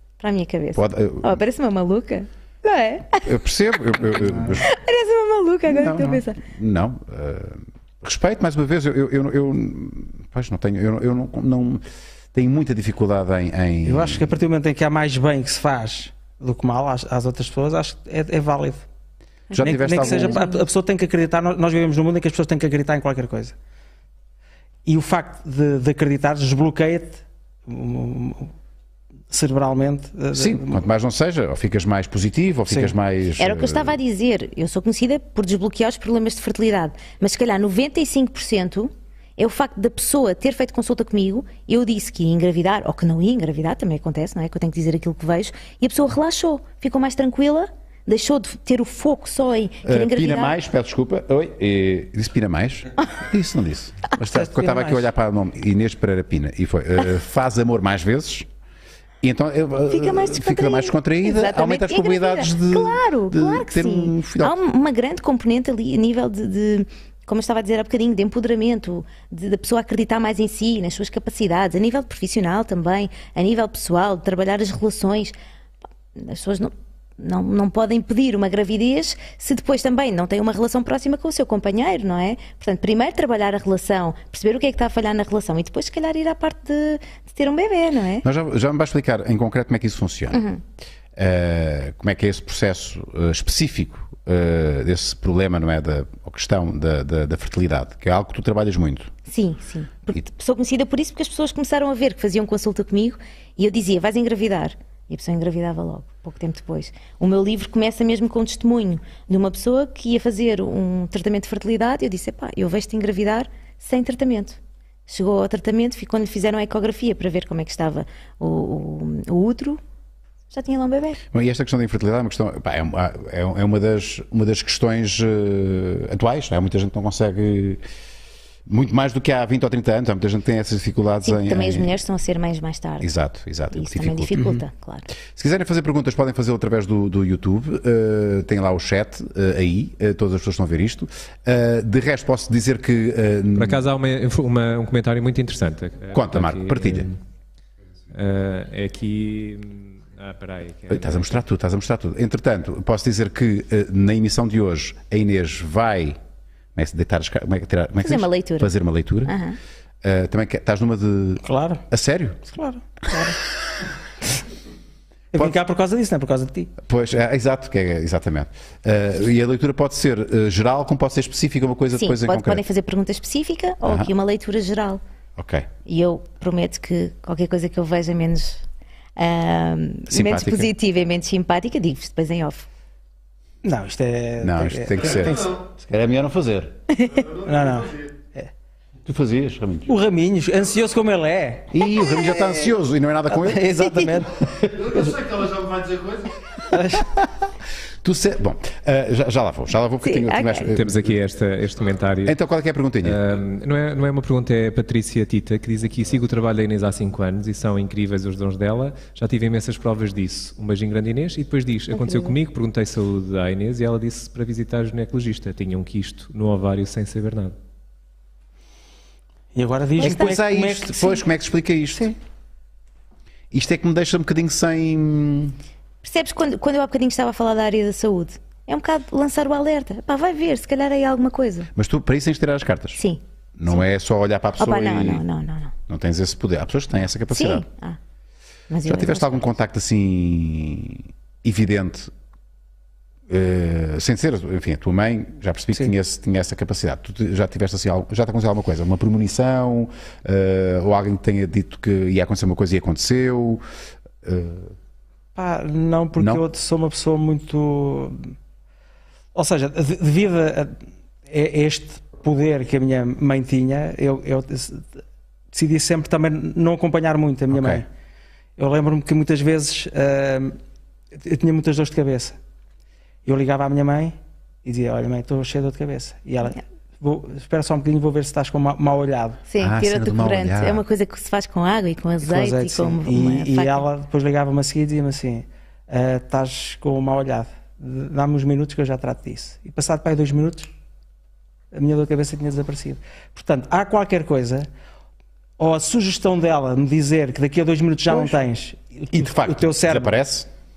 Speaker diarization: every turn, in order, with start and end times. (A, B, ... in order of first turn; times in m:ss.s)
0:00.2-0:03.3 A
0:00.8-0:01.4 B
0:03.2-0:04.7 B
0:04.6-0:06.4 A
0:05.7-0:14.3 B
0:13.8-0:18.8 C
0:19.5-0:20.4 B
0:19.5-0:20.6 A
0:19.6-0:23.6 C
0:24.8-0:28.5 C
0:29.3-0:30.8 C
0:30.3-0:34.0 B
0:32.7-0:32.9 C
0:33.4-0:50.6 A
0:49.8-0:58.5 B
0:54.2-0:55.1 C
0:59.2-1:04.6 B
0:59.9-1:15.4 A
1:16.2-1:28.3 A
1:28.2-1:30.4 B
1:30.3-1:30.6 A
1:31.2-1:39.1 B
1:39.3-1:59.8 A
2:00.5-2:01.2 A
2:01.3-2:07.8 B
2:08.7-2:11.9 B
2:11.2-2:13.1 A
2:13.0-2:14.4 B
2:13.7-2:15.1 A
2:15.4-2:23.9 B
2:23.6-2:27.2 D
2:26.1-2:27.1 B
2:28.1-2:31.3 D
2:30.9-2:36.2 B
2:36.8-2:39.4 B
2:38.0-2:38.7 A
2:39.2-2:39.6 A
2:40.0-2:42.4 B
2:41.4-2:41.8 C
2:42.5-2:43.2 C
2:45.3-2:46.7 C
2:46.9-2:52.6 B
2:51.9-2:55.0 A
2:53.8-2:54.1 B
2:55.4-2:55.7 B
2:55.9-2:58.6 A
2:59.2-3:02.7 A
3:00.1-3:00.7 B
3:03.6-3:05.6 C
3:04.4-3:06.8 B
3:07.1-3:08.1 E
3:07.4-3:08.5 C
3:09.0-3:09.9 B
3:09.9-3:11.8 C
3:11.7-3:13.9 B
3:13.3-3:15.0 C
3:14.7-3:16.4 E
3:16.7-3:17.1 C
3:17.0-3:17.3 B
3:18.0-3:21.1 B
3:20.0-3:20.7 A
3:20.7-3:22.4 D
3:22.2-3:23.2 B
3:23.0-3:37.6 D
3:31.9-3:32.3 A
3:39.6-3:41.2 C
3:40.0-3:42.2 B
3:40.0-3:40.3 A
3:43.5-3:45.6 B
3:46.0-3:51.7 A
3:51.8-3:53.0 B
3:53.0-3:53.8 A
3:53.6-3:55.2 B
3:54.6-3:55.7 A
3:55.9-3:57.7 B
3:57.3-3:58.0 A
3:58.7-3:59.5 A
3:58.9-4:02.1 B
4:03.3-4:13.6 B
4:14.2-4:14.8 B
4:15.4-4:18.3 C
4:19.4-4:20.8 C
4:21.3-4:24.9 C
4:25.5-4:27.9 C
4:27.5-4:27.8 B
4:28.6-4:30.6 C
4:31.1-4:32.4 C
4:33.2-4:39.4 C
4:39.5-4:43.9 A
4:39.6-4:40.8 B
4:42.2-4:50.7 C
4:51.7-4:54.7 C
4:55.6-5:00.2 C
4:59.1-5:00.5 B